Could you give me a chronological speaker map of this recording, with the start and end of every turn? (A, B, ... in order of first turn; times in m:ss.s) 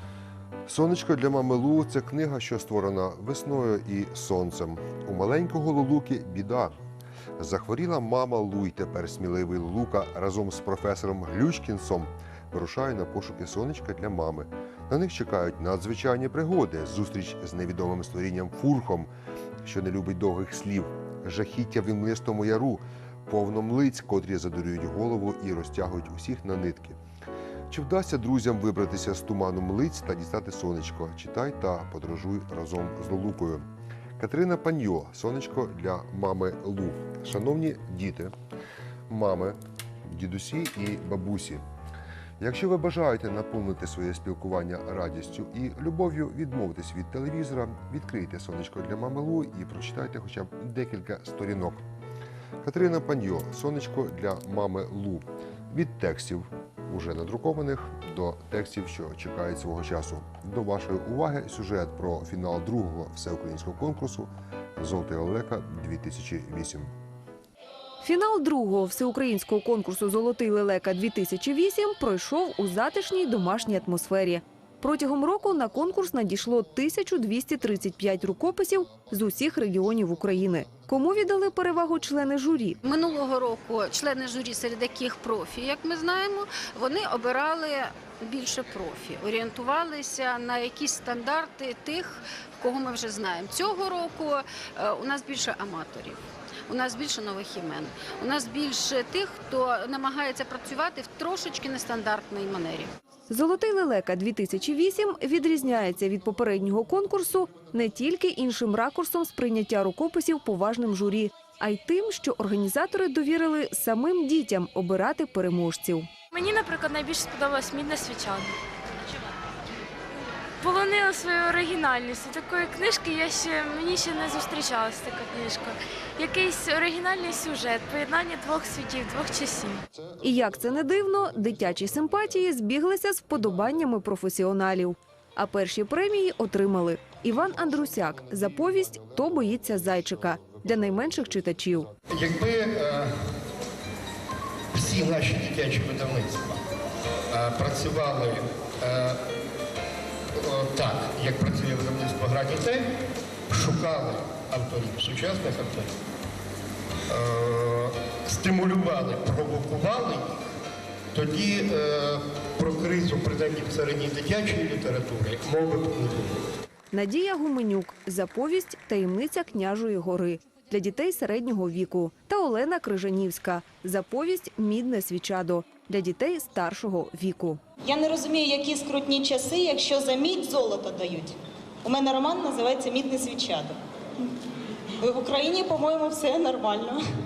0:00.7-0:06.8 A
0:07.4-0:19.1 A
0:19.6-0:27.0 A
0:27.7-0:33.7 A
0:34.2-0:38.3 A
0:39.1-0:41.6 A
0:42.4-0:51.8 A
0:52.6-1:06.9 A
1:08.0-1:22.8 B
1:22.8-1:42.9 C
1:43.3-1:56.1 B
1:56.3-1:58.6 D
2:00.6-2:09.8 D
2:10.2-2:21.9 B
2:22.1-2:23.1 E
2:24.7-2:26.6 E
2:27.3-2:29.2 E
2:30.4-2:32.9 E
2:33.5-2:35.9 E
2:37.1-2:40.4 E
2:41.1-2:46.4 E
2:46.9-2:57.6 B
2:57.8-3:01.3 F
3:01.8-3:03.8 F
3:05.0-3:07.0 F